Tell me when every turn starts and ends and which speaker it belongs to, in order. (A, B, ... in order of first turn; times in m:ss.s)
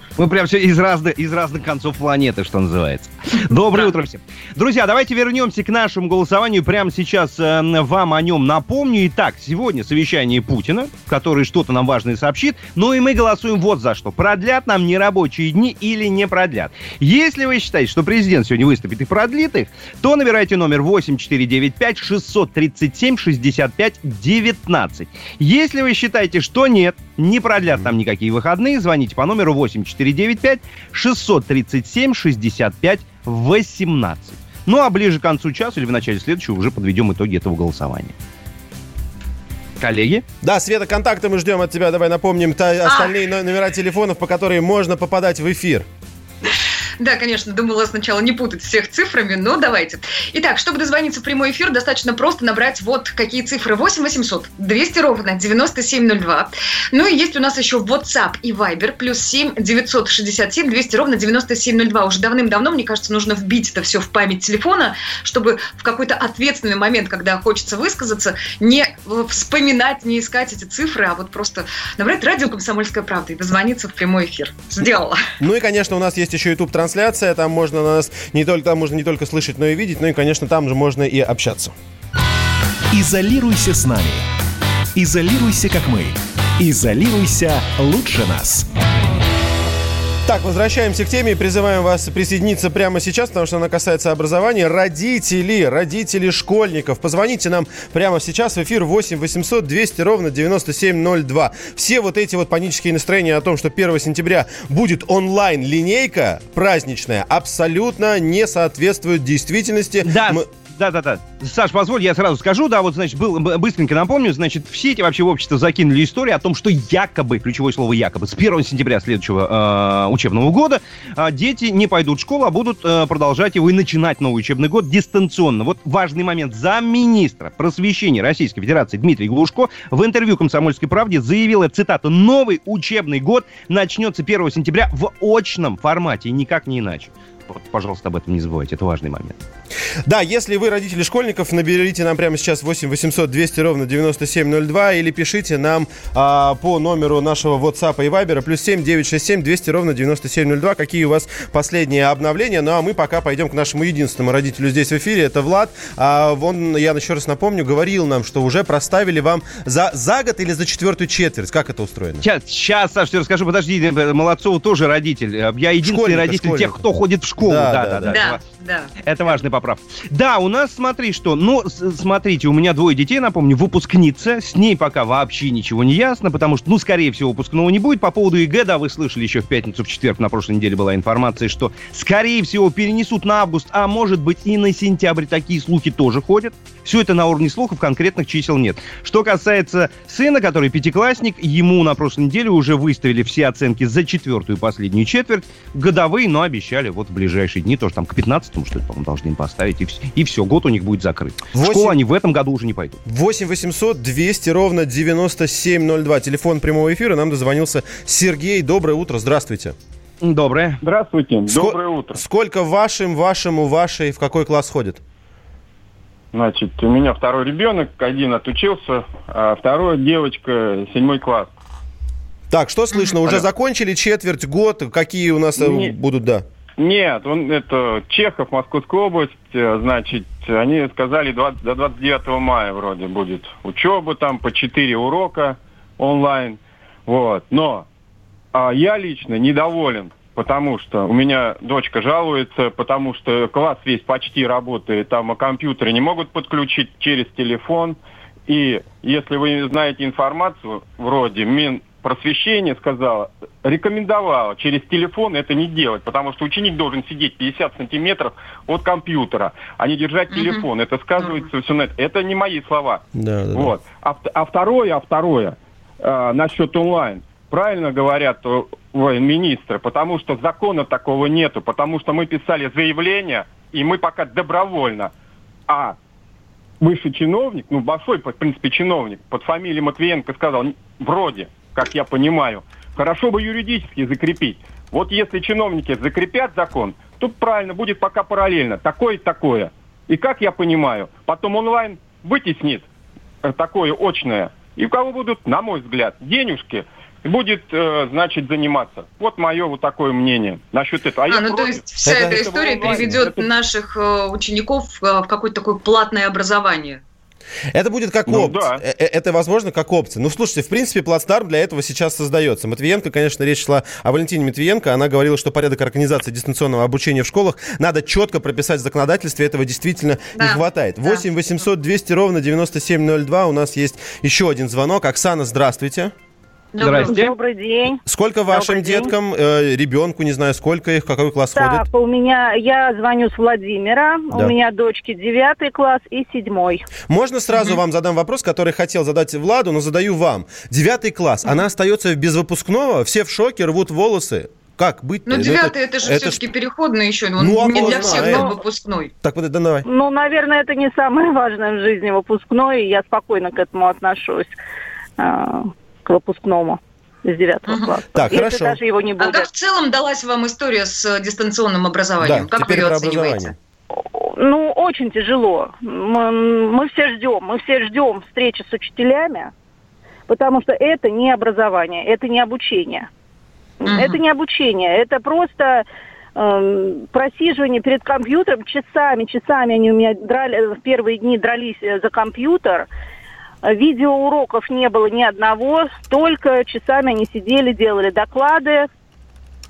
0:00.2-0:38.2 A
0:03.5-0:04.0 B
0:39.8-0:40.2 A
0:40.4-0:45.9 C
0:42.8-0:43.2 B
0:47.0-1:15.2 B
1:15.4-1:21.8 C
1:22.9-1:24.2 D
1:25.0-1:28.7 D
1:30.2-1:50.5 C
1:50.0-2:19.4 A
2:20.1-2:42.3 C
2:42.2-2:48.4 A
2:45.8-2:46.8 C
2:47.4-2:48.2 C
2:48.1-2:49.4 B
2:49.0-3:23.0 A
3:21.5-3:22.0 C
3:23.1-3:29.8 C
3:30.2-3:30.8 A
3:30.8-3:32.2 E
3:31.5-3:35.0 C
3:36.3-3:41.5 E
3:42.5-3:46.4 C
3:42.9-3:43.2 B
3:45.6-3:46.0 E
3:46.8-3:57.9 E
3:58.5-4:35.1 E
4:20.3-4:21.5 B
4:23.1-4:23.8 C
4:35.7-4:36.0 E
4:36.8-4:52.8 E
4:53.4-5:03.4 E
5:01.3-5:07.0 B
5:02.0-5:03.3 C
5:07.7-5:26.1 C
5:08.3-5:08.8 E
5:20.4-5:21.2 B
5:26.8-5:27.2 B
5:26.8-5:27.3 A
5:27.0-5:29.1 F
5:28.1-5:31.8 C
5:31.6-5:36.8 F
5:37.1-5:46.5 C
5:37.5-5:37.8 B
5:45.3-5:49.1 B
5:47.4-5:48.6 C
5:47.7-5:48.5 F
5:49.2-5:49.8 C
5:49.9-5:54.5 F
5:55.2-5:59.5 F
5:57.7-5:58.0 B
5:58.2-5:58.8 C
5:59.2-6:03.5 B
6:02.2-6:03.5 C
6:04.0-6:09.5 F
6:10.3-6:13.1 F
6:13.8-6:15.8 F
6:13.9-6:14.2 B
6:16.4-6:22.9 F
6:23.7-6:28.9 F